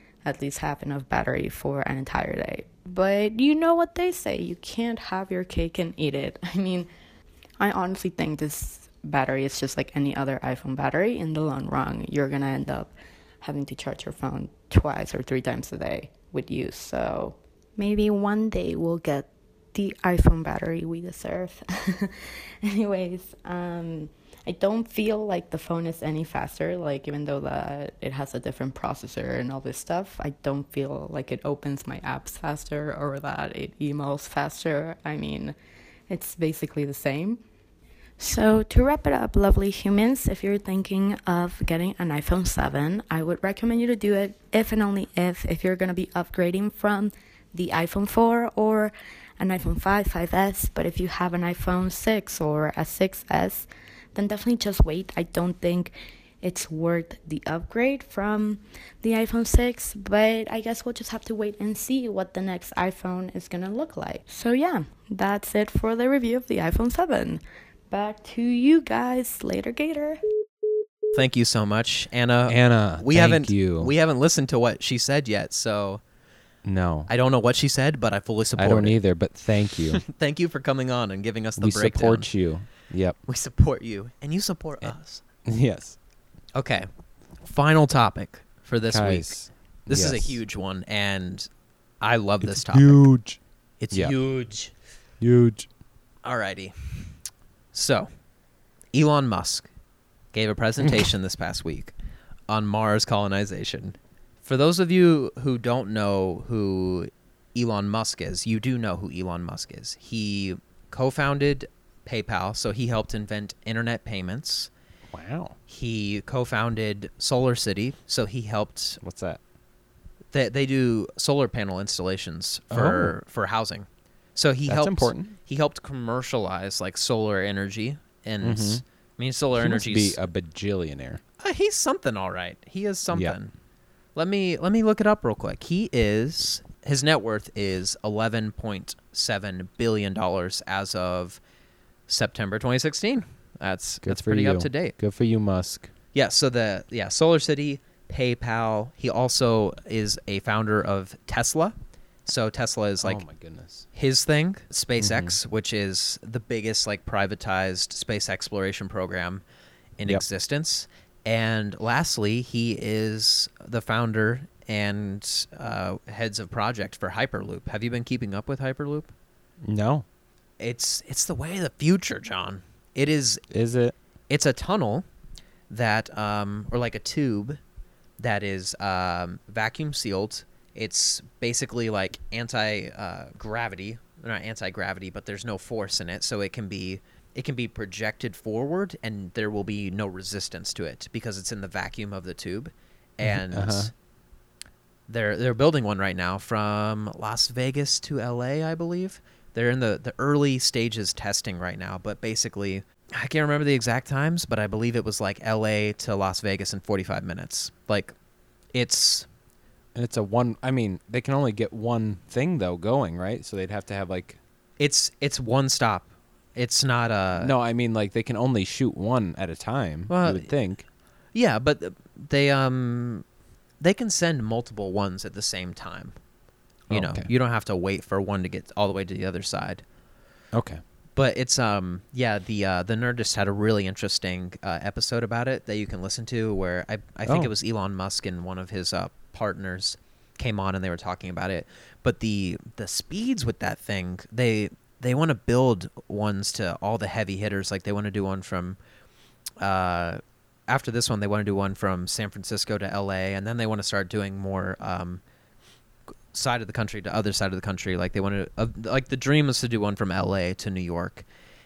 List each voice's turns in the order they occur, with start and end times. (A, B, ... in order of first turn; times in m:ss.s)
0:00.2-0:06.9 A
0:07.6-0:12.9 A
0:13.4-0:35.6 A
0:36.1-0:37.4 A
0:38.2-1:10.2 A
1:11.1-1:16.0 B
1:12.5-1:13.9 C
1:16.6-1:17.1 C
1:17.1-1:19.0 B
1:18.6-1:20.0 C
1:19.9-1:22.3 B
1:21.6-1:23.2 C
1:23.3-1:25.2 B
1:25.4-1:26.0 C
1:26.6-1:26.9 B
1:27.4-1:29.4 B
1:28.9-1:30.4 C
1:29.9-1:31.5 B
1:32.0-1:33.0 B
1:32.4-1:33.4 C
1:33.8-1:34.7 B
1:35.2-1:35.7 C
1:36.2-1:37.1 B
1:37.7-1:38.1 B
1:38.9-1:39.7 B
1:40.3-1:41.9 B
1:40.8-1:41.1 C
1:42.5-1:54.7 B
1:55.1-1:55.6 C
1:55.7-1:59.0 B
1:59.0-1:59.4 C
2:00.3-2:10.2 B
2:02.7-2:03.2 C
2:04.7-2:05.4 C
2:08.4-2:08.8 C
2:09.6-2:11.2 C
2:11.4-2:13.5 B
2:14.2-2:21.4 B
2:22.1-2:25.0 B
2:24.0-2:25.9 C
2:26.1-2:33.2 B
2:33.0-2:33.9 C
2:33.9-2:39.4 B
2:35.0-2:35.4 C
2:40.0-2:49.1 B
2:49.6-2:50.0 C
2:50.6-2:53.4 B
2:53.5-2:54.0 C
2:54.3-2:55.0 B
2:55.7-2:57.6 B
2:58.2-3:13.9 B
3:13.2-3:13.9 C
3:15.1-3:28.1 B
3:28.7-3:29.3 B
3:30.0-3:34.4 C
3:34.8-3:37.5 B
3:37.4-3:40.8 C
3:40.1-3:40.5 B
3:41.3-3:43.2 B
3:43.8-3:46.2 B
3:46.9-3:47.3 C
3:46.9-3:49.8 B
3:50.5-3:50.8 C
3:51.2-4:08.8 B
4:09.6-4:15.2 B
4:16.3-4:21.3 B